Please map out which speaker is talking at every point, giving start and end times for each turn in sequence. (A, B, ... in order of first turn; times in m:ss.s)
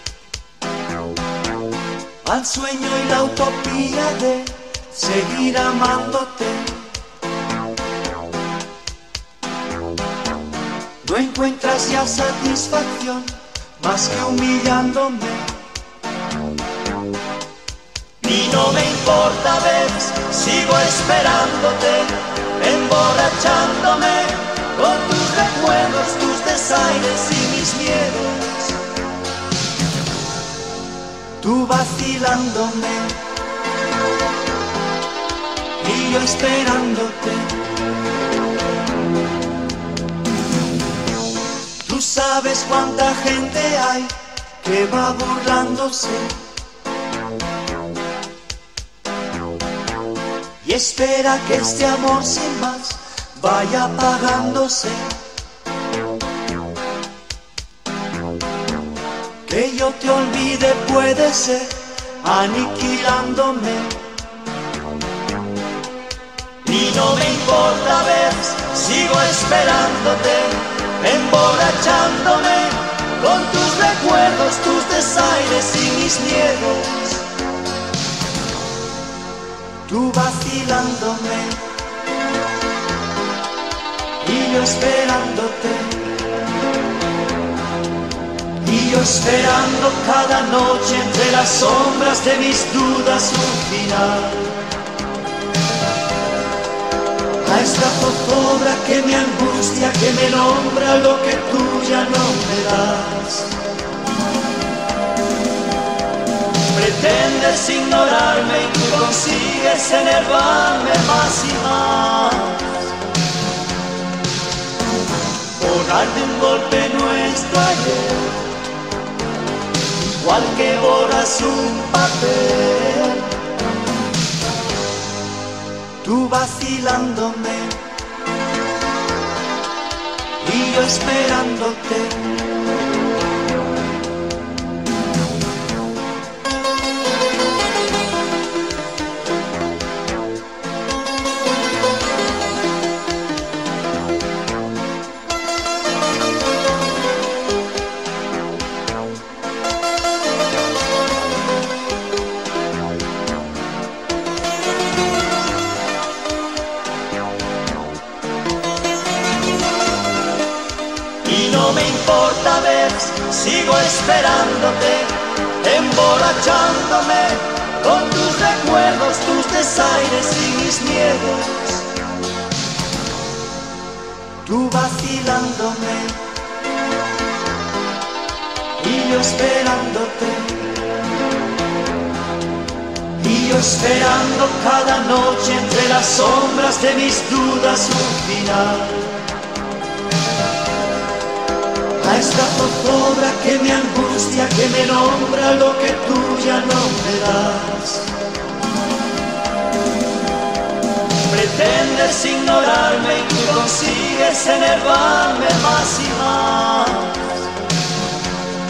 0:02.2-0:06.9 A
0:11.0-0:15.6 A
0:18.2-0:28.8 A
0:31.4-0:33.3 A
0:35.8-0:37.7 A
0:41.8-0:46.4 A
0:50.6-0:55.2 A
0:59.4-1:04.1 A
1:06.6-1:17.3 A
1:19.8-1:21.7 A
1:24.2-1:26.2 A
1:28.6-1:34.8 A
1:37.4-1:43.6 A
1:46.7-1:53.0 A
1:55.6-1:58.6 A
2:00.0-2:03.5 A
2:06.0-2:07.9 A
2:10.4-2:12.4 A
2:41.2-2:51.9 A
2:54.4-2:56.3 A
2:58.8-3:00.8 A
3:03.2-3:09.3 A
3:12.0-3:18.2 A
3:21.2-3:27.5 A